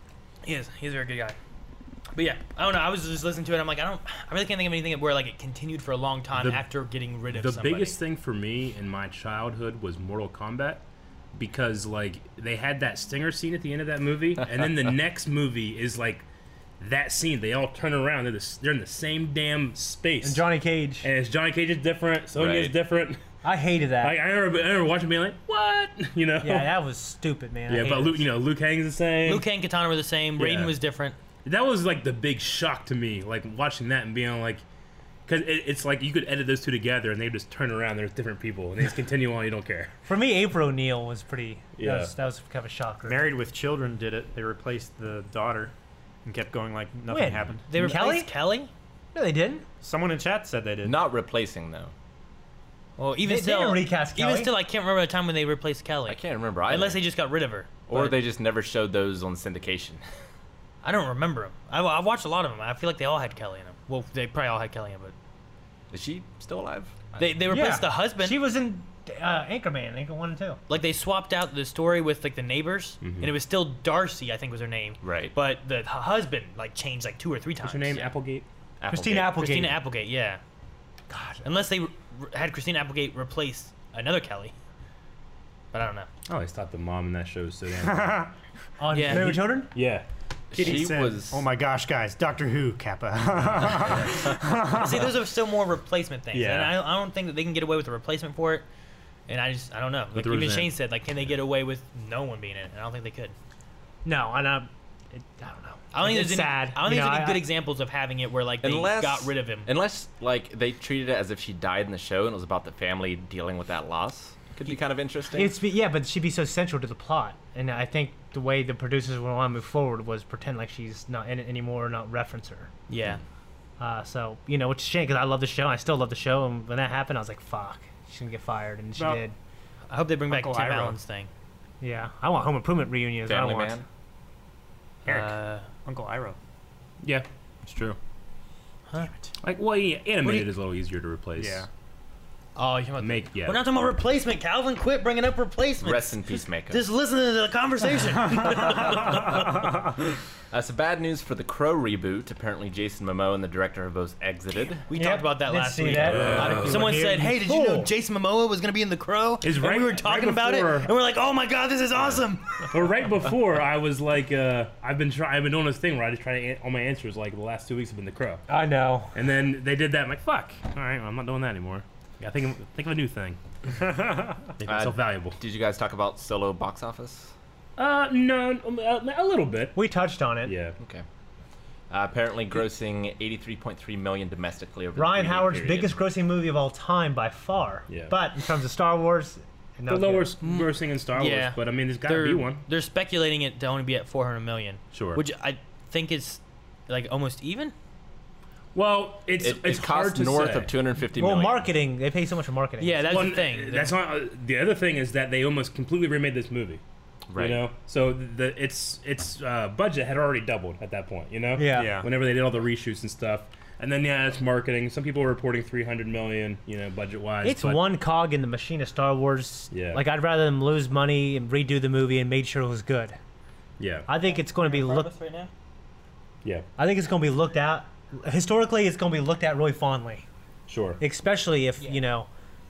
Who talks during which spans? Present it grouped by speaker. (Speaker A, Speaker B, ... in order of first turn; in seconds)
Speaker A: 0.4-1.4, 2.1-8.0, 29.2-31.2, 47.7-48.7, 53.0-58.2, 60.8-65.1, 67.2-68.4, 70.7-78.1, 79.2-80.4, 81.4-84.5, 85.7-86.1, 88.9-89.4, 94.6-98.7, 99.3-103.3, 105.9-109.7, 122.9-123.2, 129.9-131.3, 135.1-135.7, 140.2-140.5, 142.6-149.9, 154.9-162.7, 190.4-197.7, 202.8-204.0, 224.2-225.5
Speaker B: 6.3-6.6, 7.3-10.8, 11.3-16.2, 16.8-20.4, 21.0-23.2, 24.0-26.7, 27.7-29.4, 30.4-30.7, 31.4-34.6, 35.3-39.9, 41.8-42.1, 73.0-73.3, 77.6-78.5, 86.3-88.3, 89.1-90.1, 96.3-96.8, 100.1-100.7, 137.0-138.0, 139.4-141.7, 143.0-143.7, 155.9-156.9, 159.4-160.9, 162.7-168.4, 169.1-173.4, 174.6-175.4, 177.8-179.8, 180.4-180.8, 189.9-192.6, 194.9-195.2, 198.7-200.7, 203.1-206.8, 207.4-217.8, 219.7-220.0, 223.8-224.1, 230.7-231.0
Speaker C: 20.2-21.1, 23.4-24.2, 26.4-28.2, 40.1-43.3, 47.1-48.3, 49.1-49.7, 53.2-54.5, 67.5-70.6, 78.9-79.8, 81.1-81.4, 88.8-89.7, 104.0-107.5, 115.3-122.7, 123.8-129.3, 131.8-133.8, 154.9-157.9, 168.5-169.2, 179.8-180.6, 185.0-190.3, 201.2-203.1, 211.6-212.0, 217.4-223.2, 224.1-225.1, 226.8-230.3, 231.0-232.3
Speaker D: 22.4-22.8, 50.8-51.9, 56.1-57.0, 57.9-60.0, 65.9-67.2, 75.0-75.3, 78.8-79.5, 90.5-91.5, 108.6-115.6, 133.3-133.8, 145.8-146.8, 150.5-154.9, 156.0-156.7, 174.7-177.3, 180.8-181.1, 181.9-185.9, 199.4-201.7, 207.3-207.6
Speaker E: 43.1-45.7, 46.2-48.0, 49.8-51.0, 87.8-88.3, 90.5-95.1, 129.0-129.2, 130.3-131.0, 135.1-136.4, 141.4-141.7, 211.7-212.1